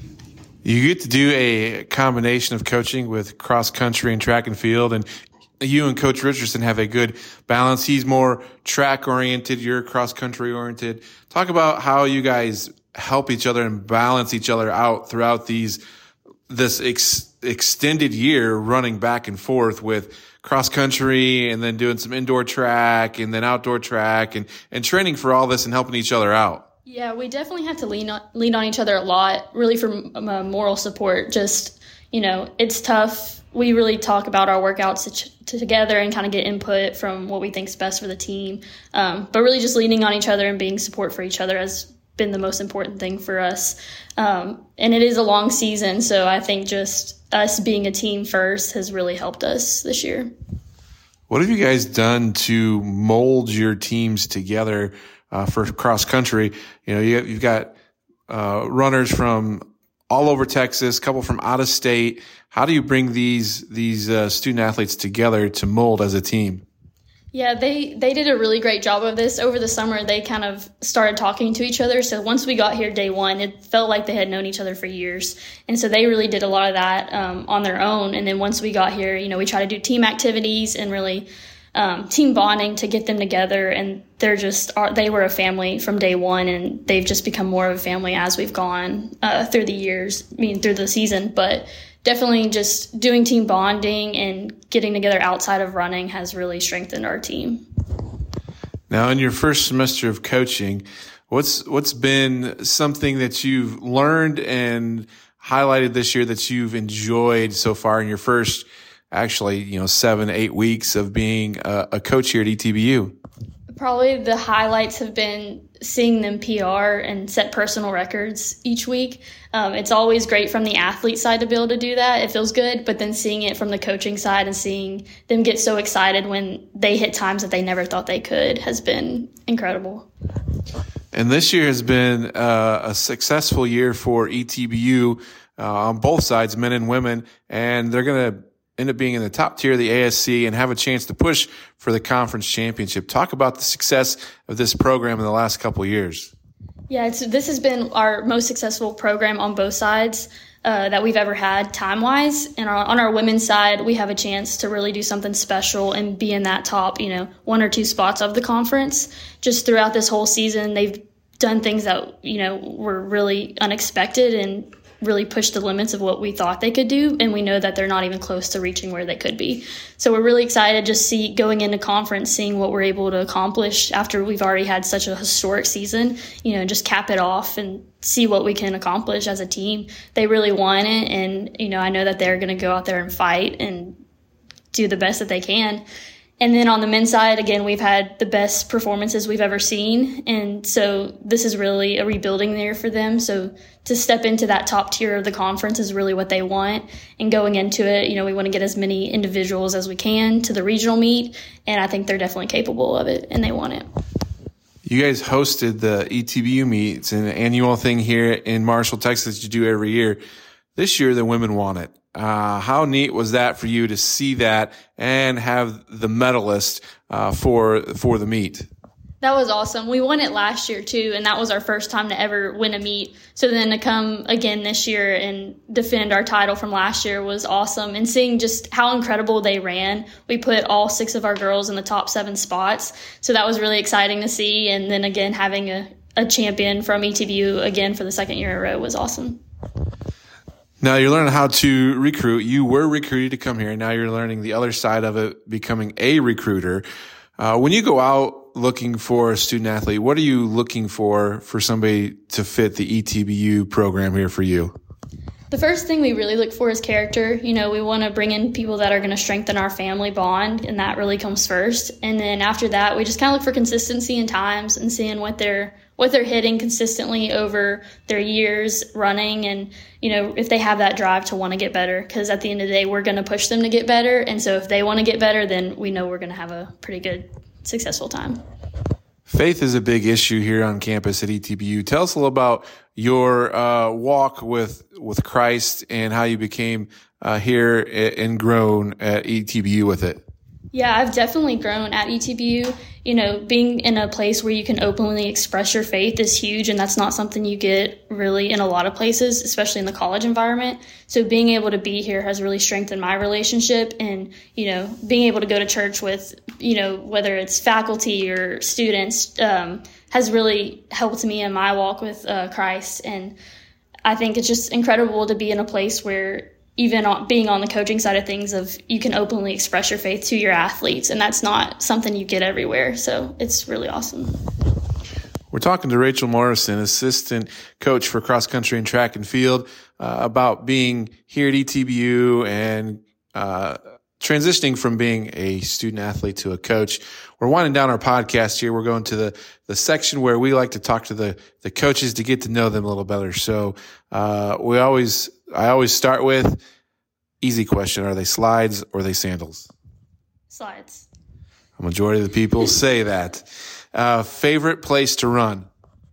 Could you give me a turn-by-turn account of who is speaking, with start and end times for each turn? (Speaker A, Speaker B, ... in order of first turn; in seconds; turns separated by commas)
Speaker A: 0.6-5.1, Speaker A: 5.6-15.8, Speaker A: 16.5-26.6, Speaker B: 26.9-50.3, Speaker A: 51.3-57.7, Speaker A: 58.3-66.6, Speaker B: 67.3-97.7, Speaker A: 98.9-113.2, Speaker B: 113.7-130.1, Speaker A: 131.1-146.3, Speaker B: 146.9-184.0, Speaker B: 184.7-185.8, Speaker B: 186.4-203.9, Speaker A: 204.8-210.2, Speaker A: 210.8-218.7, Speaker B: 219.2-239.4, Speaker A: 240.8-246.8, Speaker A: 247.4-254.7, Speaker B: 255.5-278.4, Speaker A: 279.3-290.2, Speaker B: 290.7-313.4, Speaker B: 314.1-324.4, Speaker A: 325.5-346.6, Speaker A: 347.4-349.7, Speaker B: 350.5-351.1, Speaker A: 351.8-355.7